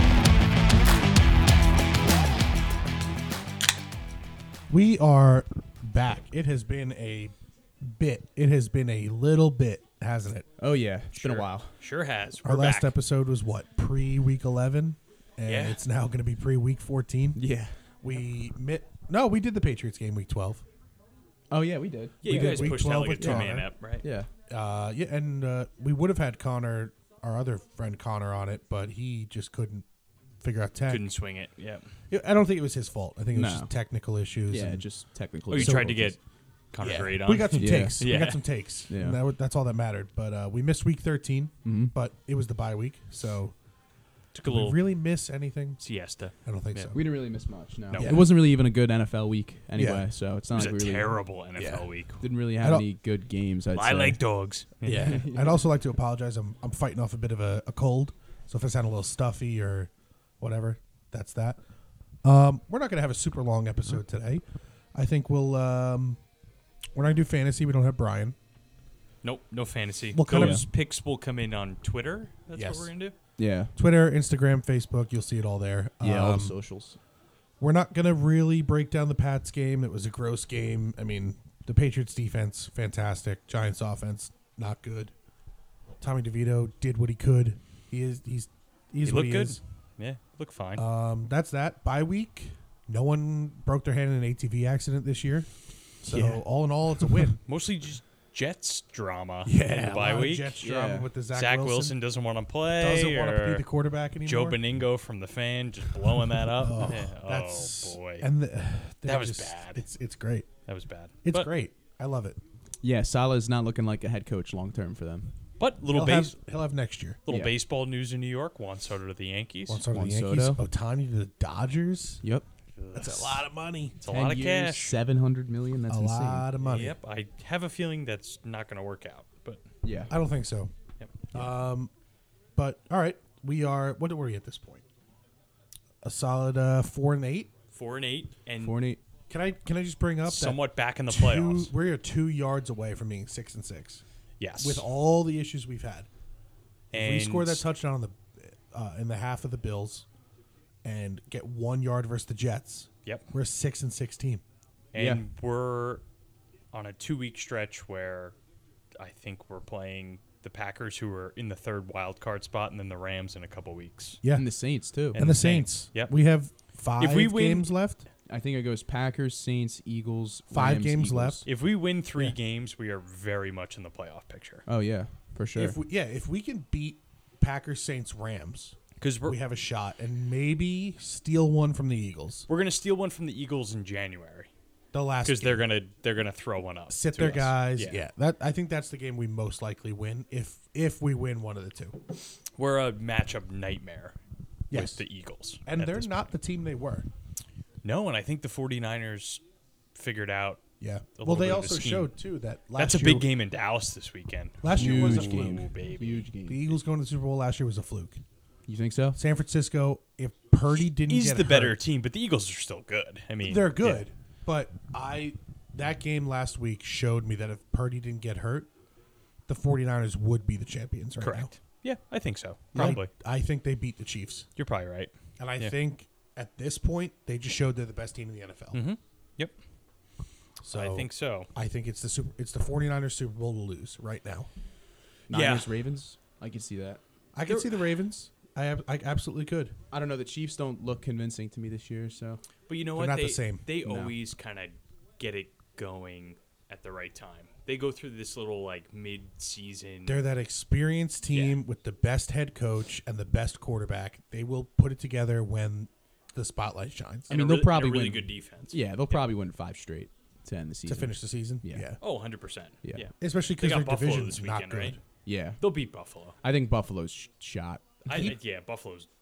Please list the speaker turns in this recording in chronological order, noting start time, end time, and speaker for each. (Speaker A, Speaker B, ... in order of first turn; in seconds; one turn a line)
Speaker A: 4.7-10.5
Speaker B: 10.6-11.7
Speaker C: 11.1-12.9
Speaker A: 12.4-17.4
Speaker C: 15.4-15.8
Speaker B: 17.4-17.8
Speaker A: 18.0-20.6
Speaker B: 21.5-24.3
Speaker C: 22.2-24.0
Speaker A: 22.2-23.7
Speaker A: 24.5-29.8
Speaker A: 30.4-31.1
Speaker C: 30.9-31.9
Speaker A: 32.1-34.9
Speaker B: 33.3-33.7
Speaker B: 34.5-36.0
Speaker C: 35.5-36.2
Speaker A: 35.5-36.1
Speaker C: 36.7-38.4
Speaker A: 36.8-43.5
Speaker B: 37.5-38.0
Speaker B: 38.9-39.2
Speaker B: 41.6-41.9
Speaker C: 44.3-44.8
Speaker A: 44.4-45.8
Speaker C: 45.8-46.9
Speaker A: 46.4-47.0
Speaker B: 46.9-51.2
Speaker A: 47.9-48.3
Speaker A: 49.8-50.0
Speaker C: 50.5-52.2
Speaker A: 51.6-51.9
Speaker B: 52.2-54.2
Speaker A: 52.6-52.8
Speaker C: 53.7-55.2
Speaker A: 54.8-61.6
Speaker B: 54.9-55.6
Speaker A: 62.2-64.4
Speaker A: 64.9-66.2
Speaker A: 66.9-68.3
Speaker C: 69.2-73.1
Speaker A: 70.1-70.6
Speaker B: 70.3-70.6
Speaker A: 72.5-72.9
Speaker B: 73.4-73.7
Speaker A: 73.7-76.5
Speaker B: 76.0-77.0
Speaker A: 77.6-85.1
Speaker A: 86.0-89.6
Speaker C: 89.0-90.8
Speaker A: 90.8-95.5
Speaker A: 96.0-97.4
Speaker B: 96.1-96.4
Speaker C: 97.5-100.6
Speaker A: 99.4-102.0
Speaker B: 100.6-101.1
Speaker C: 101.3-103.6
Speaker A: 102.8-104.6
Speaker C: 104.2-108.3
Speaker A: 106.5-110.5
Speaker C: 109.0-109.8
Speaker C: 110.7-111.5
Speaker A: 111.2-112.4
Speaker B: 112.8-115.3
Speaker C: 115.6-116.3
Speaker A: 115.9-117.2
Speaker C: 117.2-119.8
Speaker A: 119.7-122.2
Speaker B: 119.9-120.6
Speaker C: 122.7-123.4
Speaker A: 122.9-124.0
Speaker C: 124.0-124.9
Speaker B: 124.0-126.5
Speaker A: 125.9-127.0
Speaker C: 126.6-129.6
Speaker B: 129.8-130.1
Speaker A: 130.1-130.7
Speaker C: 131.0-131.3
Speaker A: 131.3-131.9
Speaker A: 132.6-134.8
Speaker A: 136.0-137.5
Speaker C: 137.7-138.8
Speaker B: 138.6-139.0
Speaker A: 139.3-144.0
Speaker C: 140.2-141.7
Speaker C: 144.4-144.8
Speaker A: 144.6-146.1
Speaker C: 146.9-147.6
Speaker A: 146.9-150.1
Speaker A: 150.8-154.4
Speaker C: 154.9-156.0
Speaker B: 154.9-155.2
Speaker C: 156.7-158.3
Speaker C: 159.0-164.2
Speaker A: 164.2-164.5
Speaker B: 164.3-165.2
Speaker C: 165.1-166.1
Speaker A: 165.1-168.1
Speaker C: 167.0-167.7
Speaker B: 168.3-171.4
Speaker A: 170.5-171.4
Speaker C: 171.4-174.6
Speaker B: 174.7-175.8
Speaker A: 175.6-182.4
Speaker C: 179.0-179.4
Speaker C: 182.5-184.5
Speaker A: 184.9-185.6
Speaker C: 185.2-188.0
Speaker A: 186.9-192.0
Speaker C: 192.6-194.2
Speaker C: 194.7-196.3
Speaker A: 194.7-195.0
Speaker A: 195.6-197.1
Speaker C: 197.8-199.4
Speaker C: 199.9-200.6
Speaker A: 200.8-203.3
Speaker C: 201.2-202.1
Speaker C: 202.8-206.3
Speaker A: 204.6-205.7
Speaker B: 204.7-206.6
Speaker A: 206.5-208.2
Speaker B: 208.7-209.2
Speaker A: 209.2-211.8
Speaker C: 211.0-214.0
Speaker A: 213.4-218.7
Speaker A: 219.5-221.5
Speaker C: 221.2-223.1
Speaker A: 222.7-224.4
Speaker C: 224.6-225.7
Speaker A: 225.4-228.8
Speaker C: 228.7-229.5
Speaker A: 230.6-234.5
Speaker C: 230.7-231.5
Speaker B: 235.3-237.0
Speaker C: 235.3-235.7
Speaker A: 237.3-239.8
Speaker C: 237.4-237.8
Speaker B: 239.9-242.4
Speaker C: 242.7-250.2
Speaker A: 242.9-243.6
Speaker B: 243.8-244.1
Speaker A: 250.1-257.3
Speaker C: 251.3-251.6
Speaker C: 257.3-259.2
Speaker B: 257.3-261.9
Speaker A: 260.9-262.0
Speaker C: 262.0-265.0
Speaker B: 262.8-263.1
Speaker A: 263.2-265.0
Speaker B: 265.2-265.6
Speaker C: 265.6-266.4
Speaker B: 266.4-268.3
Speaker C: 268.0-269.1
Speaker A: 268.1-268.3